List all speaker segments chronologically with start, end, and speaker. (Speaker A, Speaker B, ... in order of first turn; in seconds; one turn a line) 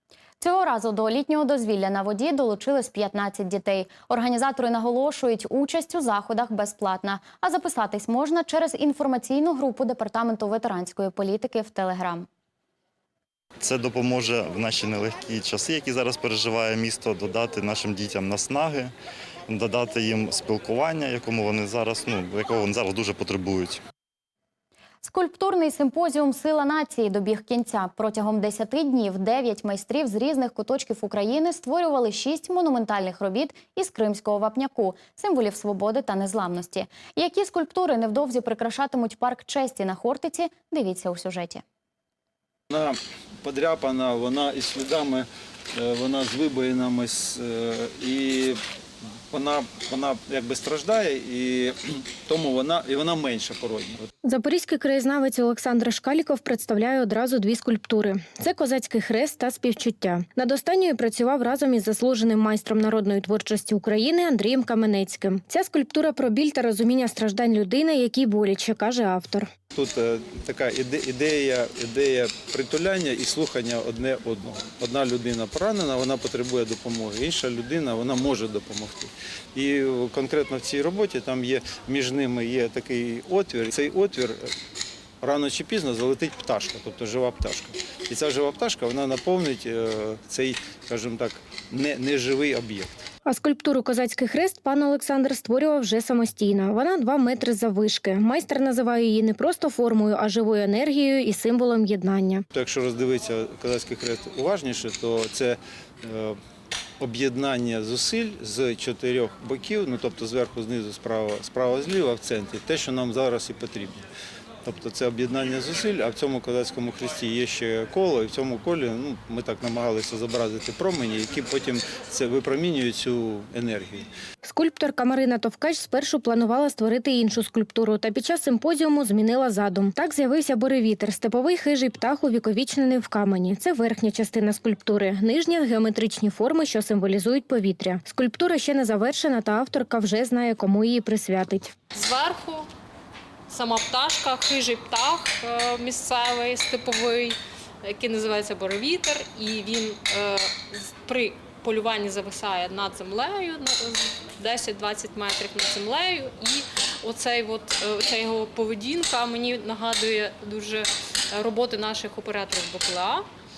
Speaker A: 0.4-12.3
Speaker B: 13.6-18.9
Speaker B: 19.5-23.8
Speaker A: 25.0-41.6
Speaker C: 42.7-48.6
Speaker C: 49.3-54.1
Speaker D: 54.2-69.5
Speaker C: 69.7-84.5
Speaker C: 85.2-92.9
Speaker D: 93.2-102.5
Speaker C: 102.5-106.4
Speaker C: 107.0-114.0
Speaker C: 114.6-124.1
Speaker D: 124.4-141.8
Speaker E: 141.9-142.7
Speaker E: 143.5-163.3